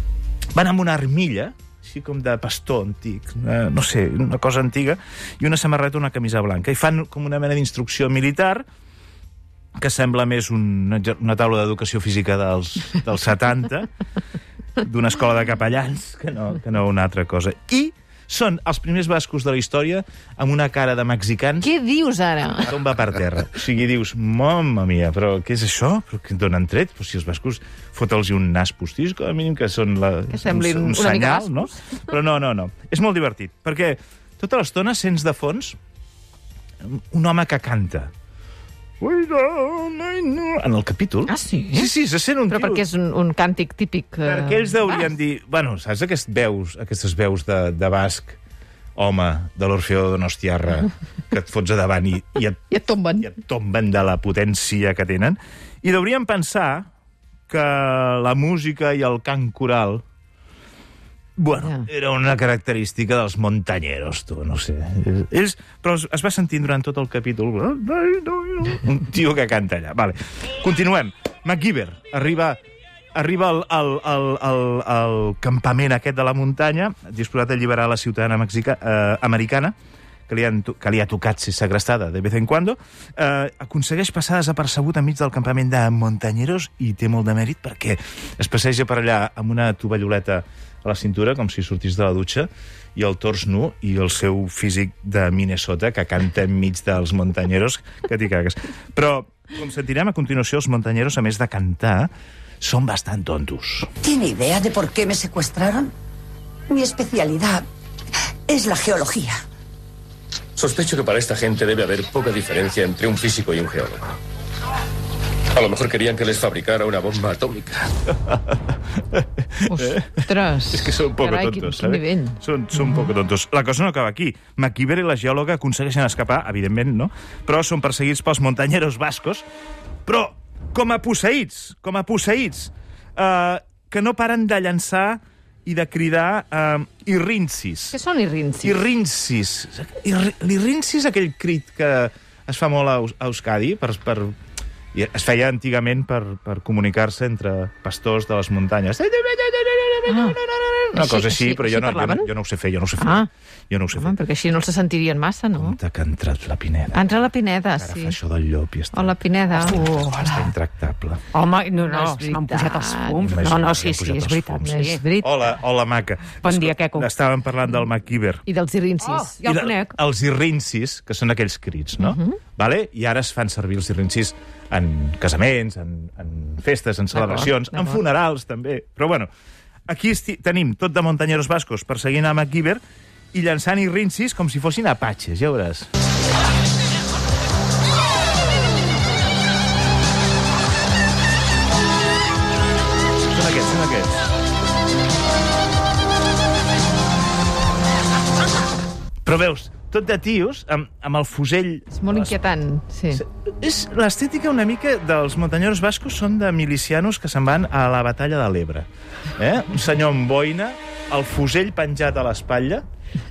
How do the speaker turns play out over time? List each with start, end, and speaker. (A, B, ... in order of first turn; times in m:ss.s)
0:00.5-0:08.6 A
0:09.8-0:13.9 A
0:14.8-0:21.7 A
0:21.6-0:22.8 B
0:22.6-0:35.8 A
0:30.3-0:31.8 B
0:36.8-0:38.1 A
0:39.0-0:42.8 A
0:41.3-0:41.9 B
0:42.5-0:45.0 B
0:44.2-0:48.4 A
0:49.0-0:52.6 A
0:52.7-0:53.3 B
0:53.2-0:56.9 A
0:57.5-1:00.0 A
1:01.4-1:12.6 A
1:01.5-1:01.9 B
1:13.2-1:19.8 A
1:20.3-1:43.9 A
1:44.0-1:45.9 C
1:46.7-1:47.7 C
1:48.5-1:49.4 C
1:50.6-1:54.2 D
1:55.5-1:57.9 D
1:58.1-2:09.4 A
1:59.6-2:03.1 B
2:10.1-2:18.0 A
2:17.9-2:18.8 B
2:18.6-2:24.3 A
2:24.9-2:34.2 A
2:30.1-2:30.4 B
2:30.9-2:32.3 B
2:33.0-2:33.3 B
2:33.9-2:35.8 B
2:35.6-2:37.1 A
2:36.9-2:38.2 B
2:37.8-2:41.2 A
2:38.9-2:40.2 B
2:41.3-2:45.0 E
2:41.8-2:43.3 B
2:43.2-2:48.4 A
2:44.7-2:45.5 B
2:46.4-2:47.1 E
2:48.5-2:49.3 B
2:49.0-2:49.9 E
2:49.4-2:59.3 A
2:52.0-2:52.4 B
2:57.1-2:58.0 B
2:59.9-3:02.8 A
3:03.3-3:05.9 A
3:13.3-3:14.3 A
3:19.2-3:22.4 A
3:21.9-3:23.2 B
3:23.1-3:32.8 A